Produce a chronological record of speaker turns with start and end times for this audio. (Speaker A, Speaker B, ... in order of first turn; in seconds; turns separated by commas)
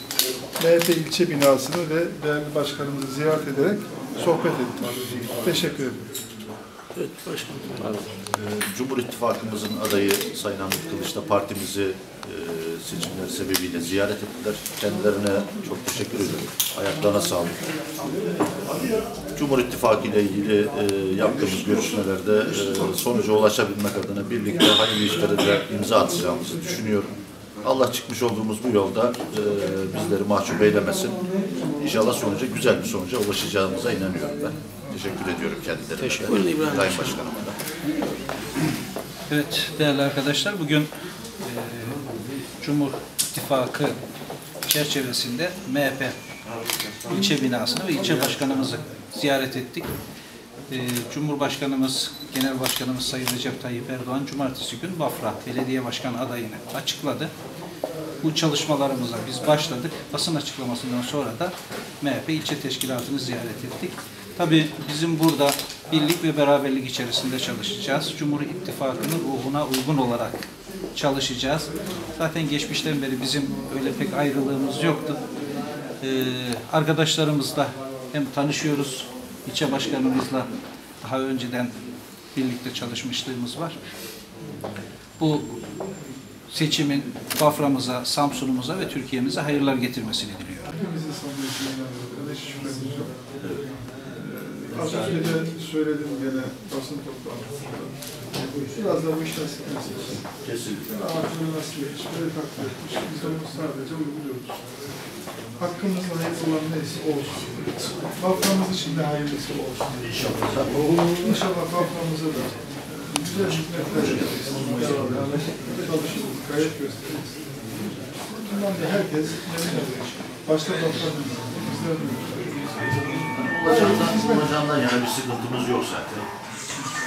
Speaker A: 0.6-6.0, Speaker B: 7.0-8.2, Speaker C: 8.4-17.6, Speaker C: 18.6-31.2, Speaker C: 31.8-37.6, Speaker B: 36.0-37.1, Speaker D: 39.3-40.9, Speaker D: 41.4-42.0, Speaker D: 42.6-44.0, Speaker D: 44.7-46.1, Speaker D: 47.0-49.9, Speaker D: 50.7-57.3, Speaker D: 58.2-75.2, Speaker D: 76.0-80.5, Speaker D: 81.0-81.7, Speaker D: 82.3-83.8, Speaker D: 85.2-85.5, Speaker D: 86.5-90.7, Speaker A: 90.7-93.2, Speaker C: 93.4-93.6, Speaker A: 94.0-98.0, Speaker D: 94.8-95.3, Speaker A: 98.6-100.2, Speaker C: 100.4-101.2, Speaker A: 100.9-104.6, Speaker A: 105.6-110.4, Speaker C: 110.0-111.1, Speaker A: 111.1-117.4, Speaker C: 113.8-114.9, Speaker A: 118.2-122.7, Speaker C: 123.3-126.3, Speaker A: 123.6-124.5